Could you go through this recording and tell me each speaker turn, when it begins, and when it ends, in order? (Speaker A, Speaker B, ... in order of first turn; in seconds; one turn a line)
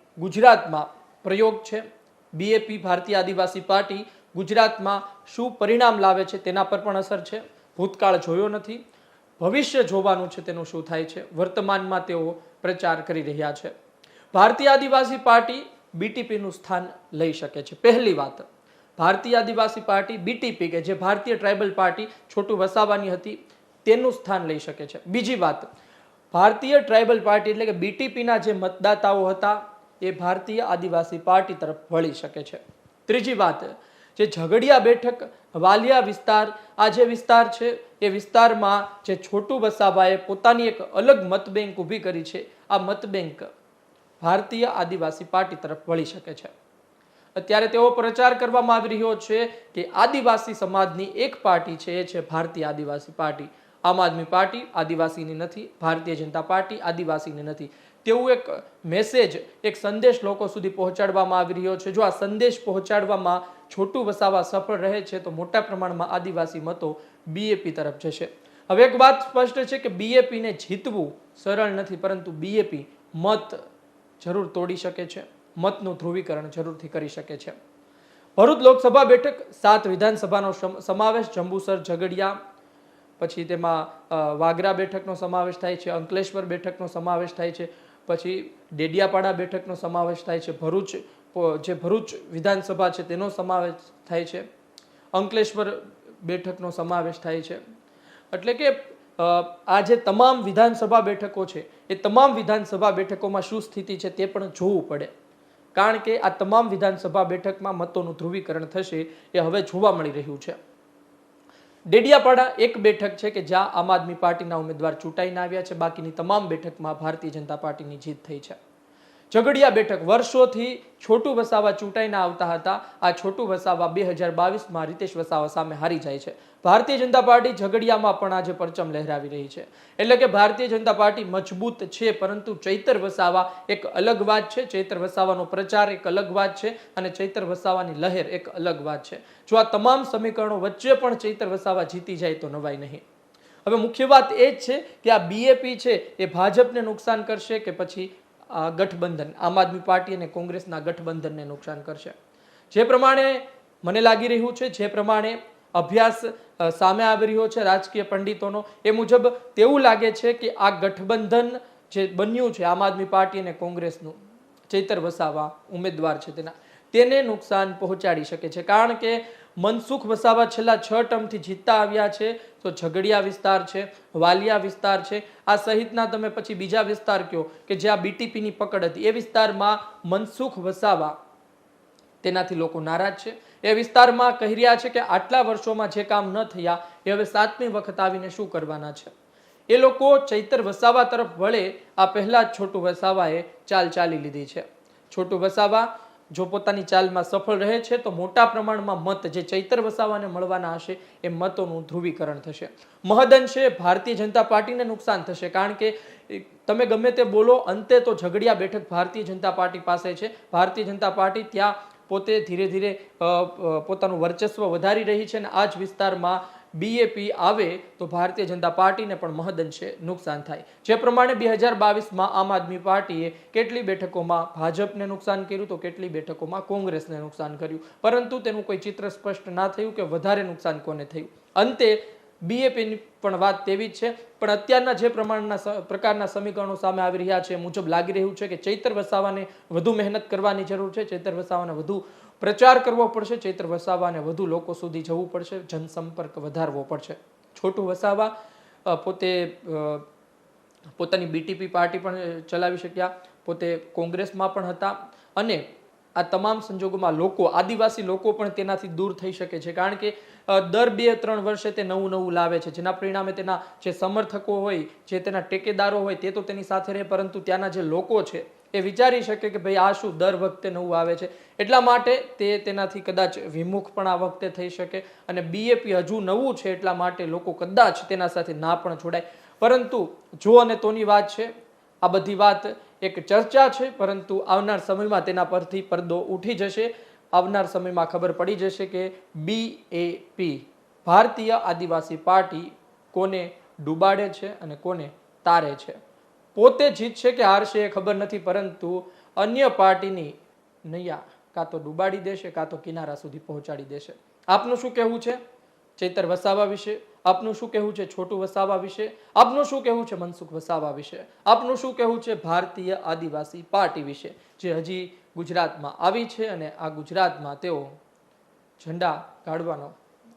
Speaker A: 0.2-8.8
Speaker A: 9.4-13.7
Speaker A: 14.3-25.7
Speaker A: 26.3-43.5
Speaker A: 44.2-46.5
Speaker A: 47.4-73.6
Speaker A: 74.2-77.6
Speaker A: 78.4-82.4
Speaker A: 83.2-94.5
Speaker A: 95.2-97.6
Speaker A: 98.3-105.1
Speaker A: 105.8-110.6
Speaker A: 111.9-118.6
Speaker A: 119.3-143.0
Speaker A: 143.7-152.2
Speaker A: 152.7-164.2
Speaker A: 164.7-181.2
Speaker A: 182.2-189.1
Speaker A: 189.7-248.3
Speaker A: 248.8-250.1
Speaker A: 251.0-255.7
Speaker A: 256.2-296.0
Speaker A: 296.6-305.4
Speaker A: 306.0-318.0
Speaker A: 318.8-320.0